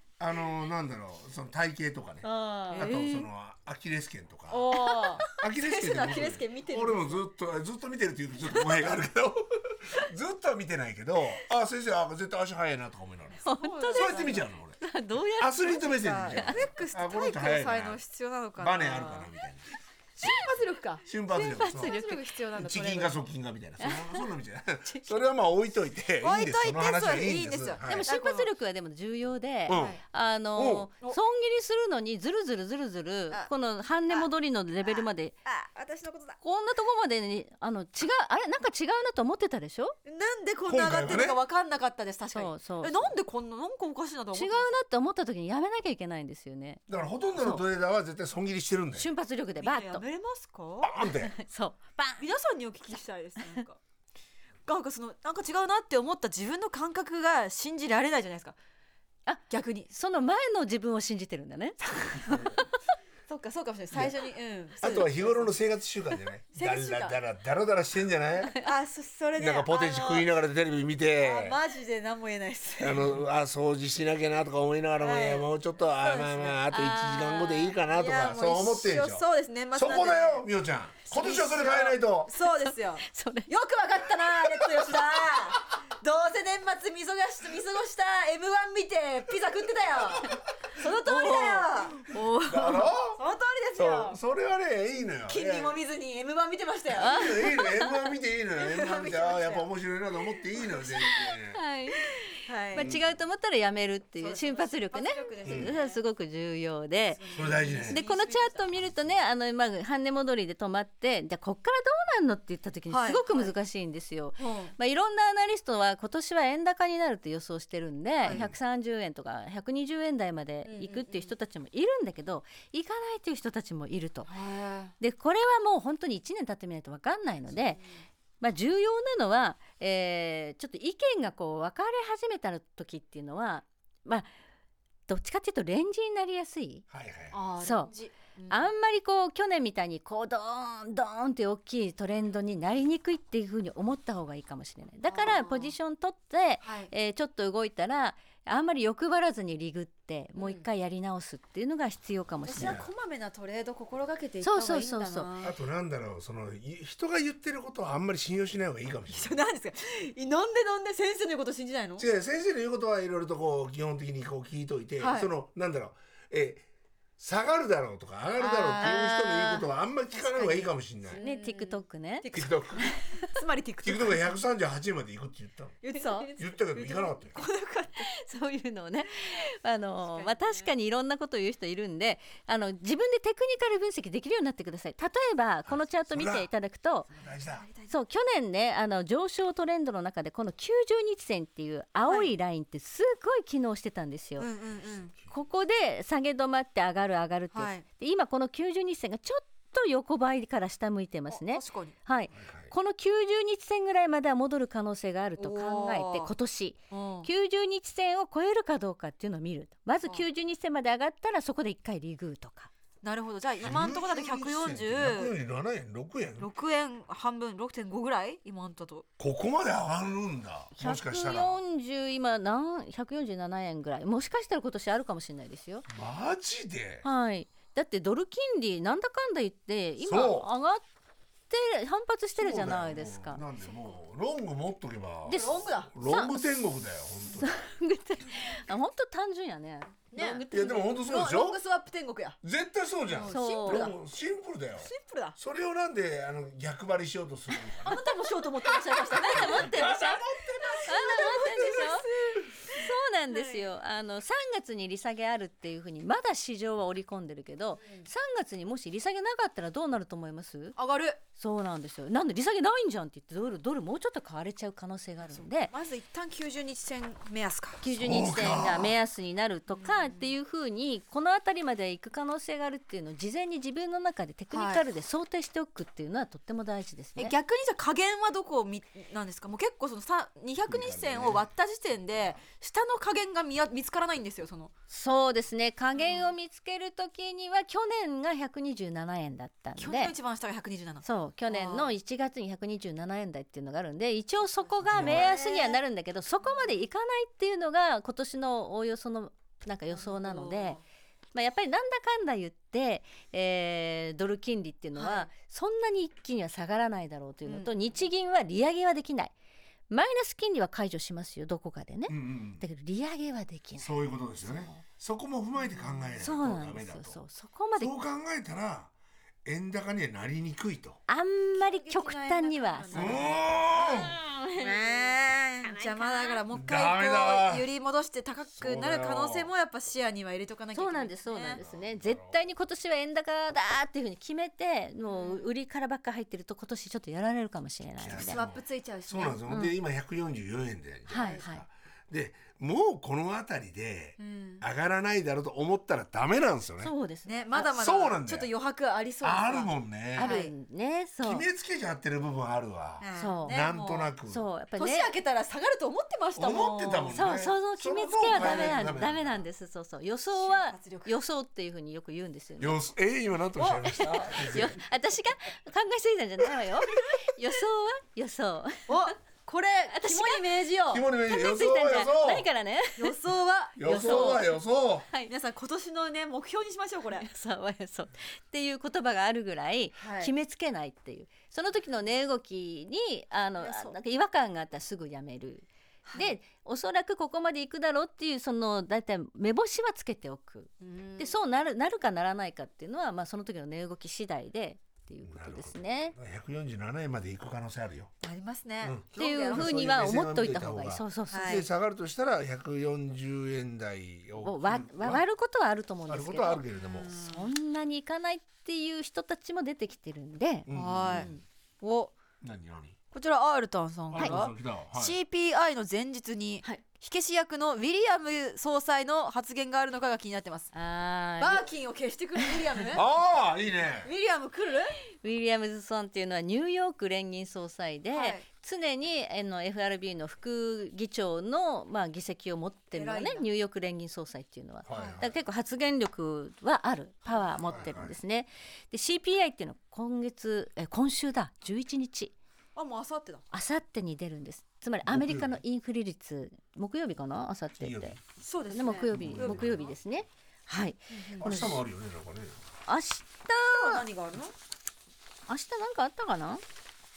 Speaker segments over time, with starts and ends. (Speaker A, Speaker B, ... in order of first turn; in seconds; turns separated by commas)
Speaker A: 0.2-14.8, Speaker B: 2.2-2.9, Speaker C: 2.7-3.3, Speaker B: 4.5-7.2, Speaker C: 4.8-5.2, Speaker B: 13.4-14.4, Speaker C: 13.4-16.6, Speaker A: 15.4-18.0, Speaker B: 15.7-19.3, Speaker A: 18.6-20.5, Speaker B: 20.2-23.2, Speaker A: 21.0-22.0, Speaker C: 21.5-22.3, Speaker A: 22.5-28.1, Speaker C: 23.8-24.2, Speaker C: 24.9-25.2, Speaker B: 26.2-28.5, Speaker C: 27.8-35.4, Speaker A: 29.7-30.0, Speaker B: 29.7-30.0, Speaker A: 30.6-30.9, Speaker B: 34.8-36.4, Speaker C: 36.4-40.0, Speaker B: 40.0-44.7, Speaker A: 40.7-41.4, Speaker C: 42.3-43.1, Speaker C: 44.3-47.6, Speaker A: 46.9-49.1, Speaker C: 49.0-50.0, Speaker B: 49.6-51.0, Speaker A: 50.8-51.3, Speaker C: 51.2-52.2, Speaker B: 52.2-53.8, Speaker B: 54.7-58.5, Speaker C: 59.2-62.7, Speaker B: 59.5-59.9, Speaker B: 63.3-65.5, Speaker A: 63.9-64.2, Speaker A: 64.8-68.6, Speaker B: 66.5-67.2, Speaker B: 68.6-70.2, Speaker A: 69.3-71.6, Speaker B: 71.2-73.2, Speaker A: 72.8-82.3, Speaker B: 75.0-76.6, Speaker C: 76.7-77.7, Speaker B: 77.9-80.5, Speaker B: 81.1-92.0, Speaker C: 82.6-83.5, Speaker C: 90.8-92.9, Speaker A: 92.5-93.2, Speaker B: 93.1-94.2, Speaker A: 93.8-95.8, Speaker B: 95.3-97.9, Speaker A: 96.9-101.6, Speaker C: 97.0-97.7, Speaker B: 98.6-99.7, Speaker B: 100.6-101.2, Speaker C: 101.5-102.1, Speaker B: 102.4-102.9, Speaker C: 102.7-124.3, Speaker A: 102.7-103.1, Speaker B: 104.2-106.0, Speaker A: 105.4-105.8, Speaker B: 107.1-108.8, Speaker A: 107.3-108.0, Speaker A: 108.8-109.2, Speaker B: 112.9-113.5, Speaker B: 114.4-114.7, Speaker A: 118.3-118.5, Speaker B: 120.6-121.3, Speaker B: 124.3-124.9, Speaker C: 125.0-127.8, Speaker B: 127.5-128.0, Speaker C: 128.4-134.3, Speaker C: 135.1-136.8, Speaker A: 136.9-137.3, Speaker B: 137.3-138.7, Speaker C: 137.6-137.9, Speaker C: 138.5-152.8, Speaker B: 145.1-145.7, Speaker B: 146.6-146.9, Speaker B: 150.3-150.7, Speaker B: 152.4-155.5, Speaker A: 152.6-152.9, Speaker C: 154.4-155.3, Speaker A: 155.4-159.4, Speaker B: 159.1-162.1, Speaker A: 162.0-166.6, Speaker B: 165.0-165.3, Speaker A: 167.2-171.2, Speaker B: 168.4-169.6, Speaker C: 168.8-169.6, Speaker B: 170.1-174.3, Speaker C: 171.2-172.3, Speaker A: 172.3-172.9, Speaker A: 173.8-175.8, Speaker B: 175.8-178.1, Speaker C: 175.9-176.3, Speaker A: 176.4-177.4, Speaker C: 178.1-187.1, Speaker B: 180.0-180.7, Speaker A: 185.7-186.5, Speaker A: 187.1-187.7, Speaker B: 187.1-187.9, Speaker C: 187.9-194.5, Speaker B: 192.1-192.3, Speaker B: 194.4-195.1, Speaker C: 195.3-212.7, Speaker B: 197.5-197.8, Speaker B: 201.3-201.9, Speaker A: 202.3-202.7, Speaker B: 205.4-206.3, Speaker B: 206.9-207.3, Speaker B: 213.0-215.3, Speaker A: 213.6-216.5, Speaker B: 216.4-219.1, Speaker A: 219.2-221.6, Speaker C: 220.7-225.8, Speaker A: 225.9-227.0, Speaker C: 227.0-230.8, Speaker A: 230.0-230.5, Speaker C: 231.5-233.4, Speaker A: 232.3-237.5, Speaker B: 235.3-235.9, Speaker C: 236.0-236.5, Speaker C: 237.3-240.9, Speaker B: 240.1-242.4, Speaker A: 240.5-241.6, Speaker A: 242.4-248.0, Speaker B: 243.1-244.0, Speaker C: 243.3-243.9, Speaker B: 244.8-245.4, Speaker B: 247.8-253.7, Speaker C: 248.6-250.2, Speaker A: 249.1-251.9, Speaker C: 250.8-252.1, Speaker C: 252.7-260.8, Speaker B: 257.8-258.1, Speaker B: 260.8-261.2, Speaker C: 261.3-265.7, Speaker B: 265.2-267.8, Speaker C: 267.8-277.3, Speaker A: 267.9-269.0, Speaker B: 269.8-270.3, Speaker B: 274.5-274.8, Speaker B: 277.2-284.7, Speaker A: 280.6-281.5, Speaker C: 284.9-290.1, Speaker B: 285.9-286.3, Speaker B: 289.8-291.9, Speaker C: 291.0-300.8, Speaker B: 294.8-295.8, Speaker A: 294.8-295.4, Speaker B: 299.9-300.8, Speaker C: 301.3-309.3, Speaker B: 304.9-305.3, Speaker B: 307.4-307.7, Speaker C: 309.9-314.8, Speaker A: 312.1-312.6, Speaker A: 313.8-317.2, Speaker B: 315.5-316.2, Speaker C: 316.2-317.9, Speaker A: 317.8-318.9, Speaker A: 319.4-321.0, Speaker C: 321.1-326.4, Speaker B: 321.5-323.4, Speaker A: 322.9-324.2, Speaker B: 324.6-331.6, Speaker A: 326.5-327.7, Speaker A: 328.6-329.5, Speaker C: 330.7-338.4, Speaker A: 331.5-332.4, Speaker B: 335.1-335.5, Speaker A: 338.0-346.9, Speaker B: 338.2-339.4, Speaker C: 339.5-339.7, Speaker C: 341.1-341.6, Speaker B: 341.1-341.4, Speaker B: 344.2-344.6, Speaker C: 346.8-347.6, Speaker B: 347.2-350.5, Speaker A: 347.5-348.5, Speaker A: 349.2-350.4, Speaker C: 350.1-351.4, Speaker A: 351.2-354.4, Speaker B: 353.0-354.1, Speaker C: 353.1-353.6, Speaker C: 354.3-355.1, Speaker B: 354.8-357.4, Speaker A: 356.4-359.4, Speaker C: 357.1-362.8, Speaker B: 358.3-359.0, Speaker B: 360.3-361.1, Speaker A: 362.6-364.8, Speaker C: 363.6-368.9, Speaker B: 363.8-364.4, Speaker B: 368.9-371.1, Speaker C: 369.9-370.4, Speaker A: 370.9-372.5, Speaker C: 371.2-373.1, Speaker B: 373.0-374.6, Speaker A: 373.8-375.1, Speaker C: 373.8-374.6, Speaker B: 375.3-377.3, Speaker C: 377.2-396.1, Speaker B: 380.0-380.3, Speaker B: 383.6-383.9, Speaker B: 386.0-386.3, Speaker B: 390.8-391.3, Speaker A: 395.2-398.1, Speaker B: 398.2-400.1, Speaker A: 398.8-405.2, Speaker C: 399.1-401.6, Speaker B: 401.3-401.6, Speaker C: 404.4-411.4, Speaker A: 406.1-407.1, Speaker B: 406.8-407.5, Speaker A: 410.7-411.3, Speaker B: 410.7-412.1, Speaker A: 412.4-412.9, Speaker B: 413.1-420.7, Speaker A: 414.1-415.2, Speaker C: 420.7-421.6, Speaker B: 421.4-423.1, Speaker A: 422.9-424.1, Speaker B: 424.0-425.0, Speaker C: 425.2-442.3, Speaker B: 428.1-428.4, Speaker B: 432.9-433.5, Speaker A: 434.9-435.4, Speaker B: 434.9-435.2, Speaker A: 437.6-438.1, Speaker B: 442.7-443.4, Speaker C: 443.5-448.2, Speaker A: 445.1-445.6, Speaker A: 447.8-448.2, Speaker B: 448.4-449.9, Speaker C: 448.7-451.8, Speaker A: 449.1-449.9, Speaker B: 451.1-451.6, Speaker A: 451.4-452.6, Speaker C: 452.9-454.0, Speaker B: 453.6-454.5, Speaker C: 455.5-456.6